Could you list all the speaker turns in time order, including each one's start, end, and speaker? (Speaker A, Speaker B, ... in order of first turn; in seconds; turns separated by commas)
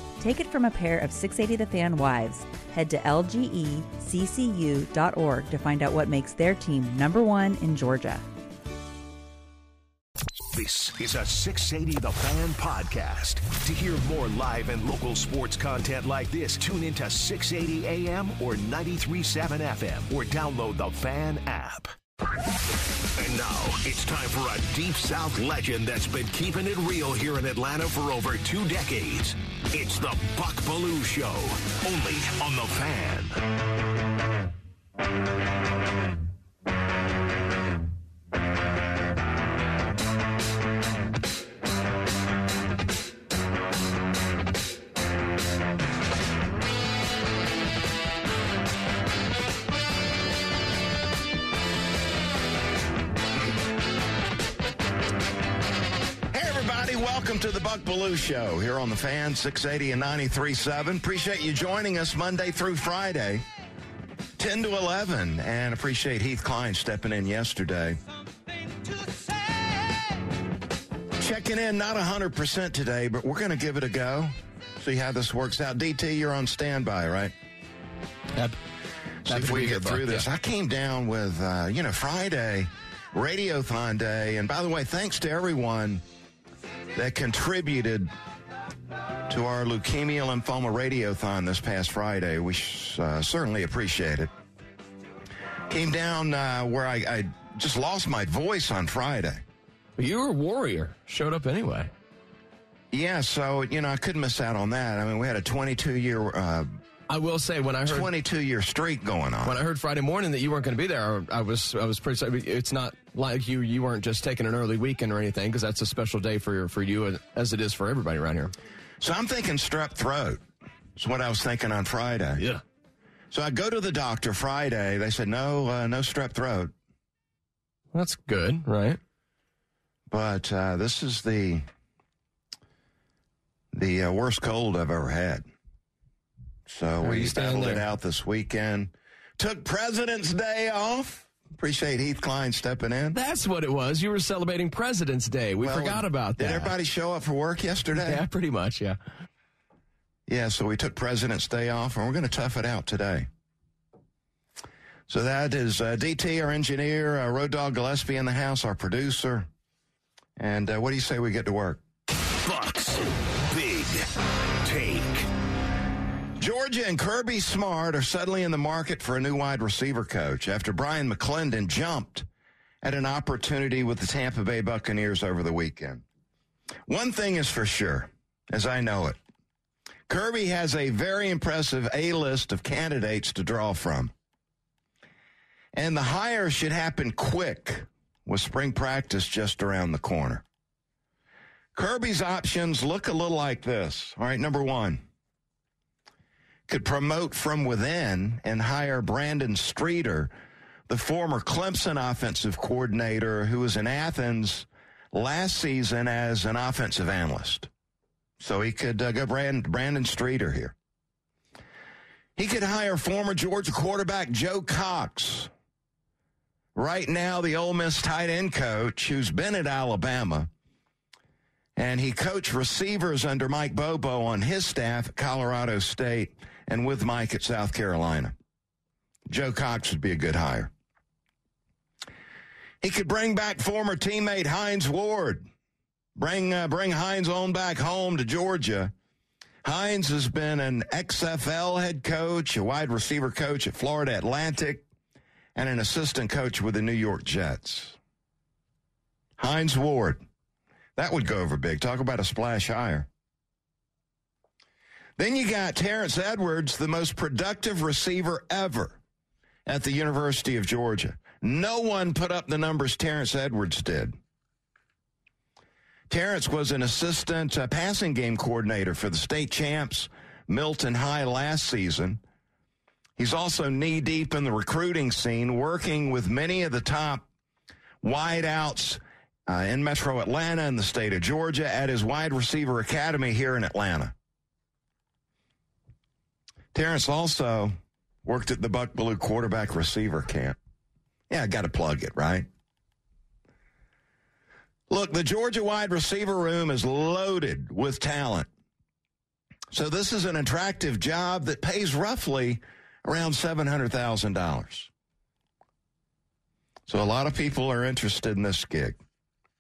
Speaker A: 0.2-8.2, Speaker B: 10.5-21.9, Speaker B: 23.2-33.4, Speaker C: 56.3-63.4, Speaker C: 64.4-68.0, Speaker C: 71.2-77.3, Speaker C: 79.2-86.0, Speaker D: 79.3-80.2, Speaker C: 87.0-88.1, Speaker C: 89.3-94.3, Speaker C: 95.7-99.4, Speaker D: 100.0-101.9, Speaker C: 102.9-106.7, Speaker D: 107.1-108.1, Speaker C: 107.8-109.6, Speaker D: 109.4-118.5, Speaker C: 119.0-120.4, Speaker C: 121.0-122.4, Speaker C: 123.3-126.7, Speaker D: 127.9-129.0, Speaker C: 130.1-131.7, Speaker C: 133.7-135.5, Speaker C: 136.7-143.2, Speaker D: 137.0-137.9, Speaker D: 143.1-146.7, Speaker C: 145.6-148.2, Speaker D: 147.9-149.0, Speaker C: 150.3-153.3, Speaker C: 155.1-159.5, Speaker C: 160.4-161.8, Speaker B: 162.4-164.1, Speaker B: 164.6-165.3, Speaker C: 166.4-172.3, Speaker C: 172.8-176.0, Speaker C: 176.9-179.2, Speaker C: 180.1-184.1, Speaker C: 185.7-190.4, Speaker C: 191.8-195.0, Speaker C: 196.7-200.3, Speaker C: 200.9-207.7, Speaker C: 208.4-210.8, Speaker C: 212.4-215.5, Speaker C: 216.8-220.5, Speaker C: 221.8-228.3, Speaker C: 229.3-230.7, Speaker C: 232.8-235.5, Speaker C: 236.2-238.9, Speaker C: 239.6-244.8, Speaker C: 245.6-248.0, Speaker C: 249.4-250.2, Speaker C: 251.0-253.1, Speaker C: 255.2-259.0, Speaker C: 259.7-264.2, Speaker C: 266.1-272.2, Speaker C: 273.2-277.3, Speaker C: 278.0-284.1, Speaker C: 286.7-287.7, Speaker C: 288.2-290.6, Speaker C: 291.3-292.5, Speaker C: 294.9-298.5, Speaker C: 299.7-304.9, Speaker C: 306.9-309.0